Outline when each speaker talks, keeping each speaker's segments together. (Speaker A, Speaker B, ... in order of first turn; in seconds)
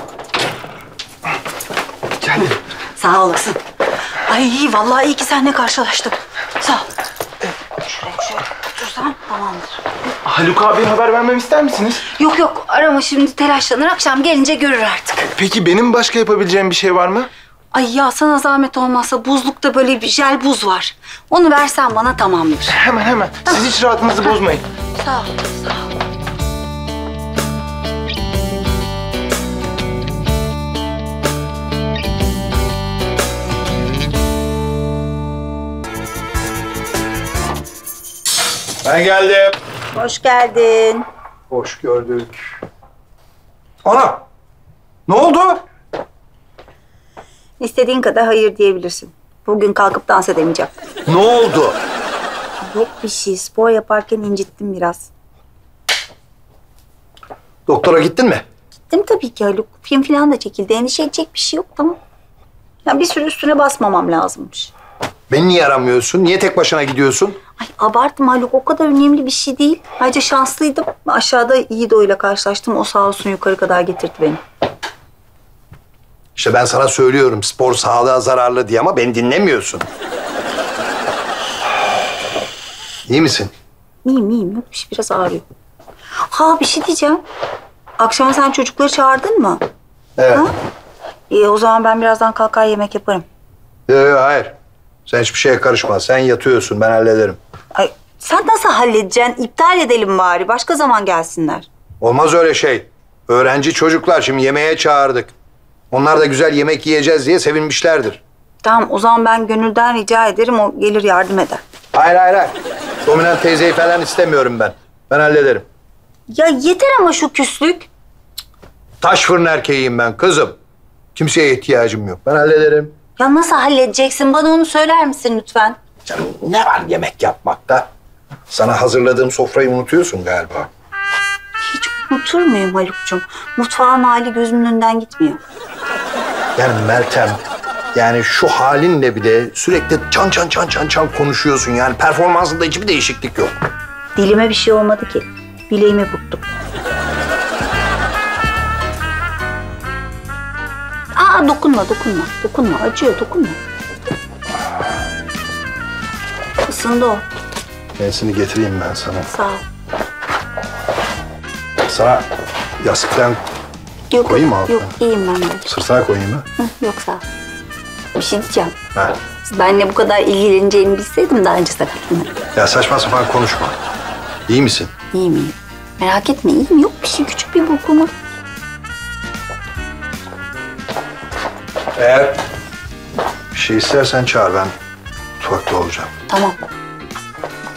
Speaker A: 2.3-2.5, 10.2-12.0, 15.4-17.3, 22.8-24.6
Speaker B: 3.0-3.6, 4.2-6.9, 7.8-9.8, 12.1-15.3, 17.7-22.8, 24.9-25.8, 39.9-41.0, 47.6-50.7, 52.6-55.1, 58.9-62.0, 62.8-64.7, 67.6-74.4, 84.0-85.4, 86.3-87.2, 88.0-89.6, 91.3-93.2, 97.7-101.7, 108.6-111.6, 116.3-117.9, 123.2-125.8, 131.6-135.4, 144.2-146.4, 151.1-153.6, 156.6-157.2, 159.3-159.6, 164.1-165.7, 166.6-167.2, 168.1-168.7, 169.4-172.3, 175.1-178.1, 186.3-186.6
Speaker C: 38.8-39.5, 41.5-42.4, 43.8-44.2, 45.1-45.6, 51.1-51.8, 57.7-58.4, 65.3-67.4, 76.3-79.9, 83.0-83.5, 90.2-90.5, 93.9-94.5, 95.0-97.4, 102.0-105.3, 105.9-108.2, 111.9-115.6, 119.0-120.5, 121.1-122.9, 126.0-127.9, 128.5-130.7, 136.6-137.4, 137.9-143.5, 158.0-159.3, 161.8-162.2, 162.8-163.4, 164.2-164.9, 165.7-166.4, 172.5-173.8, 174.5-174.9, 181.9-182.4, 183.5-184.7, 185.4-186.1